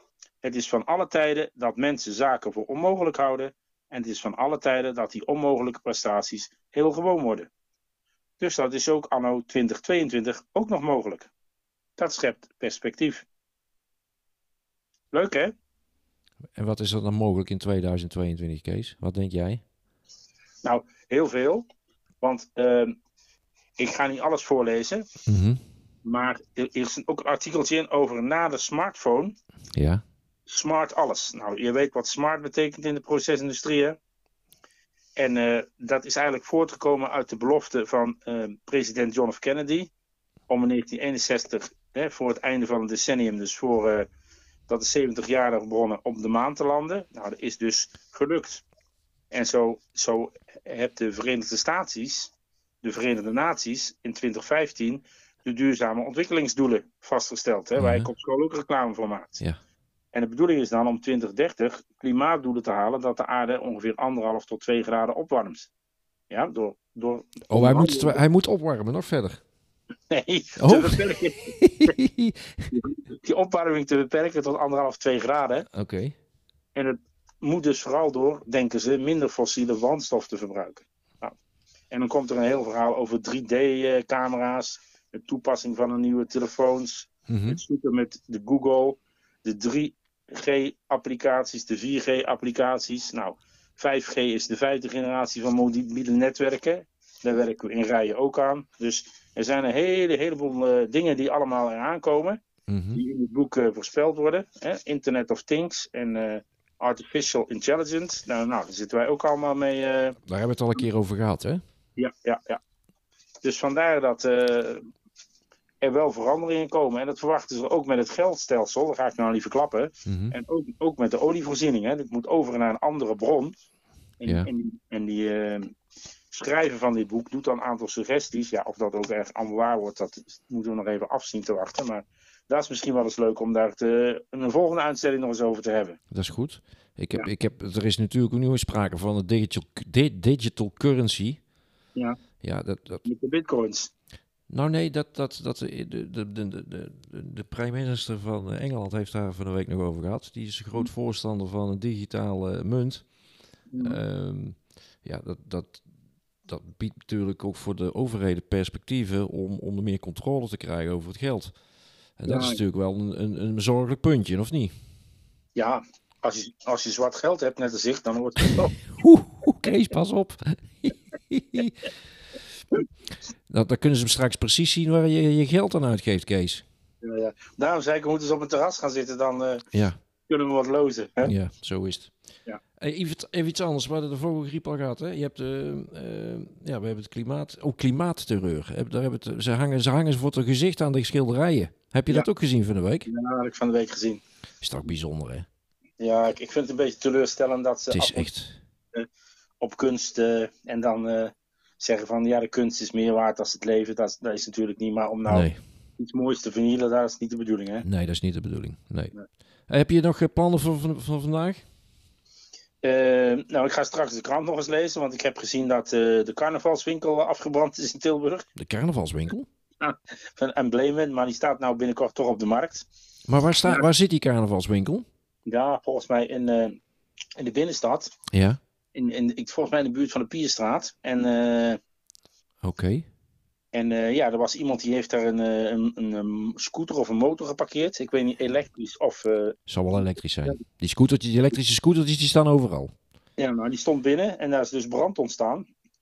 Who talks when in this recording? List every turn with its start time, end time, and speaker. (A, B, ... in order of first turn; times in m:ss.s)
0:00.4-0:07.5 A
0:08.4-0:11.3 A
0:12.0-0:13.3 A
0:15.1-0:15.5 A
0:16.6-0:19.6 B
0:20.6-0:21.6 A
0:22.2-0:23.0 A
0:23.8-0:25.0 A
0:25.3-0:25.6 B
0:26.0-0:29.4 A
0:29.8-0:30.0 B
0:30.5-0:34.0 A
0:35.2-0:39.9 A
0:40.5-0:44.1 A
0:44.7-0:48.6 A
0:49.3-0:59.4 A
0:57.8-0:58.1 B
1:00.1-1:05.7 A
1:06.3-1:08.2 A
1:07.5-1:09.4 B
1:10.1-1:11.9 A
1:10.6-1:11.0 B
1:11.6-1:12.4 B
1:12.7-1:15.7 A
1:15.8-1:16.1 B
1:16.8-1:21.4 A
1:21.9-1:42.4 A
1:27.3-1:27.6 B
1:42.7-1:43.0 B
1:42.9-1:50.2 A
1:50.3-1:51.6 B
1:52.0-1:52.6 A
1:53.4-1:54.8 A
1:55.8-2:03.5 A
2:00.1-2:00.4 B
2:04.2-2:05.7 A
2:06.3-2:16.0 A
2:16.1-2:21.4 B
2:22.4-2:23.0 B
2:23.0-2:23.9 A
2:24.5-2:33.1 B
2:33.7-2:34.0 A
2:33.8-2:35.8 B
2:36.4-2:41.6 B
2:42.2-2:44.7 B
2:42.3-2:42.6 A
2:45.6-2:48.8 A
2:49.0-2:51.8 B
2:53.5-2:56.6 B
2:57.0-2:59.6 A
3:00.3-3:01.3 A
3:01.2-3:02.1 B
3:02.8-3:13.1 B
3:13.1-3:14.2 A
3:14.6-3:15.5 B
3:16.0-3:18.3 A
3:17.9-3:18.6 B
3:19.6-3:27.8 A
3:25.3-3:25.6 B
3:27.8-3:29.1 B
3:29.7-3:31.6 B
3:32.8-3:38.4 A
3:38.6-3:39.5 B
3:39.8-3:42.9 A
3:43.3-3:45.0 B
3:45.5-3:46.8 A
3:47.4-3:48.1 A
3:48.3-3:48.6 B
3:49.0-3:51.8 A
3:52.6-3:53.0 B
3:53.7-3:59.6 A
3:59.7-4:02.9 B
4:03.4-4:05.6 A